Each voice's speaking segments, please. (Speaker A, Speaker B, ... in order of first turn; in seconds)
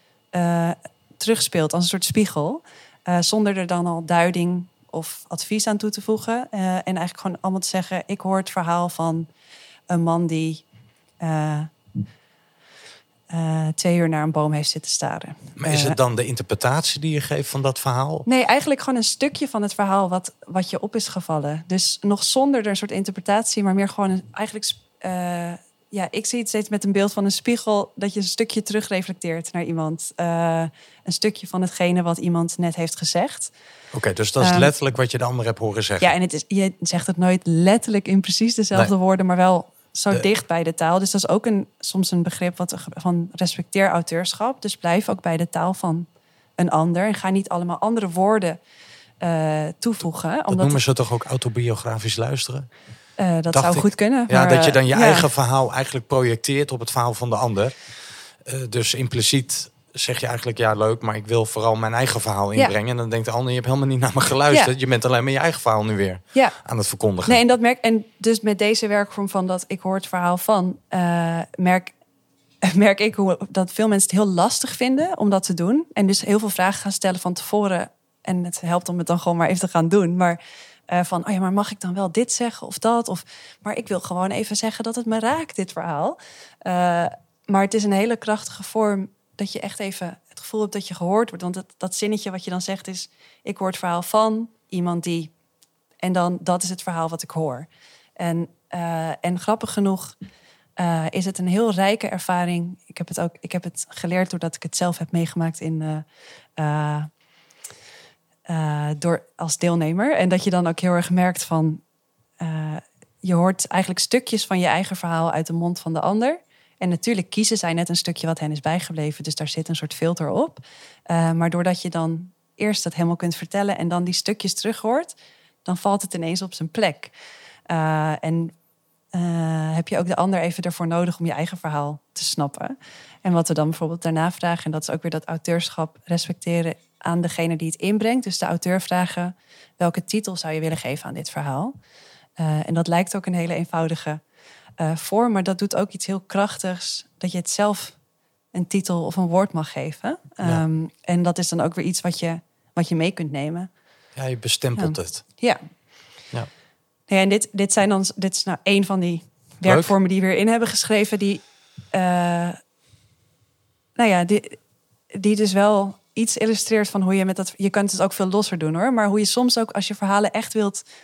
Speaker A: 0.3-9.3, 9.9-10.6, 11.2-11.7, 13.3-16.0, 18.2-33.5, 34.4-34.7, 36.0-46.1, 46.6-48.6, 49.2-50.8, 53.2-55.3, 67.2-71.9, 72.6-95.3, 96.0-100.1, 100.8-106.0, 106.6-107.1, 108.5-111.8, 112.4-125.1, 125.6-127.1, 127.7-128.5, 129.1-141.7, 142.4-144.2, 144.8-148.0, 148.5-153.7, 154.8-155.6, 157.1-162.6, 163.9-164.6, 165.1-170.8
Speaker B: 15.6-18.3, 33.9-36.1, 50.5-52.7, 53.5-57.8, 58.4-67.4, 154.1-155.2, 159.6-159.9